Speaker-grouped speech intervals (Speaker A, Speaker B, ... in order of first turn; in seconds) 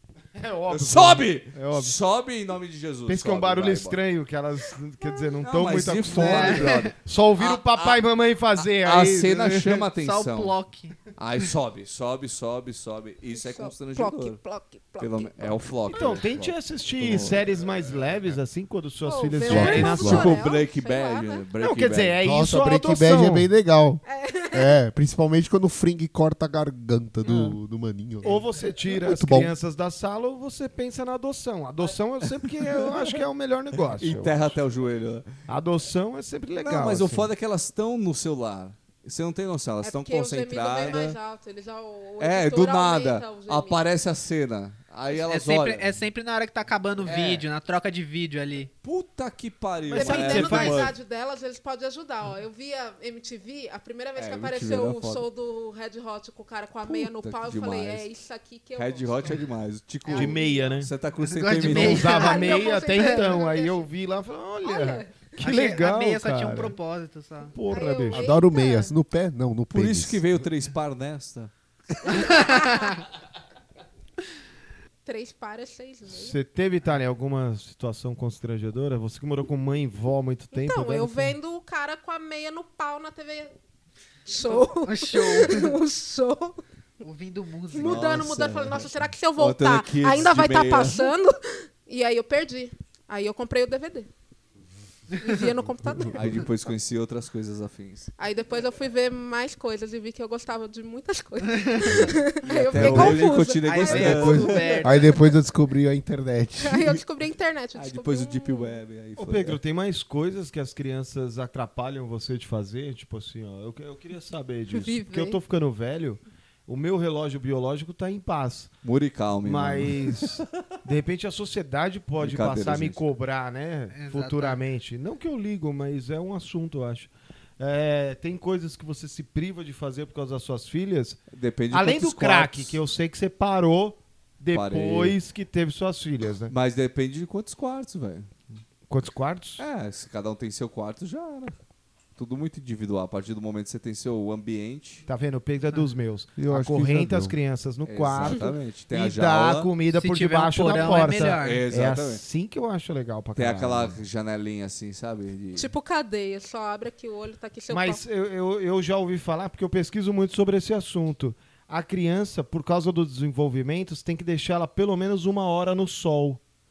Speaker A: 0.3-2.0, 3.1-9.9, 15.9-20.3, 21.6-23.5, 28.2-34.6, 35.5-37.3, 49.9-50.9, 60.1-60.9, 61.6-66.8, 67.5-68.2, 76.1-81.4, 109.2-118.7, 119.4-131.2, 131.7-136.5, 138.9-139.6, 145.1-154.0, 157.7-166.4
Speaker B: 0.7-4.0, 5.4-8.0, 8.7-10.6, 11.2-14.4, 15.0-17.4, 19.9-22.2, 27.2-27.6, 32.3-32.9, 34.0-35.3, 36.6-41.2, 42.2-45.9, 47.1-47.5, 48.8-50.9, 54.2-55.3, 56.8-58.1, 58.8-62.1, 69.7-71.5, 87.8-91.1, 96.1-98.1, 102.5-104.8, 107.7-109.6, 118.8-120.4, 122.2-123.0, 131.3-132.8, 134.5-135.2, 136.5-138.3, 139.6-141.6, 142.2-145.1, 147.8-149.7, 151.1-152.2, 153.3-155.7
Speaker C: 6.2-6.9, 10.0-11.1, 45.2-48.7, 61.2-62.4, 65.4-67.6, 72.2-72.8, 84.4-85.5, 87.0-88.0, 103.6-104.9, 123.9-124.6, 150.0-151.6
Speaker D: 13.3-16.1, 19.1-21.4, 24.1-24.8, 39.8-43.8, 50.0-59.4, 60.1-60.5, 62.0-63.9, 64.6-65.1, 67.7-68.9, 72.3-72.9, 75.0-76.4, 80.5-83.5, 84.3-86.6, 87.7-94.1, 95.2-96.3, 98.2-105.3, 106.6-108.8, 114.7-115.4, 148.3-148.6, 155.6-158.0
Speaker E: 19.4-20.4, 22.2-28.4, 29.1-29.5, 68.1-70.3, 102.8-103.2, 103.9-107.0, 146.4-147.4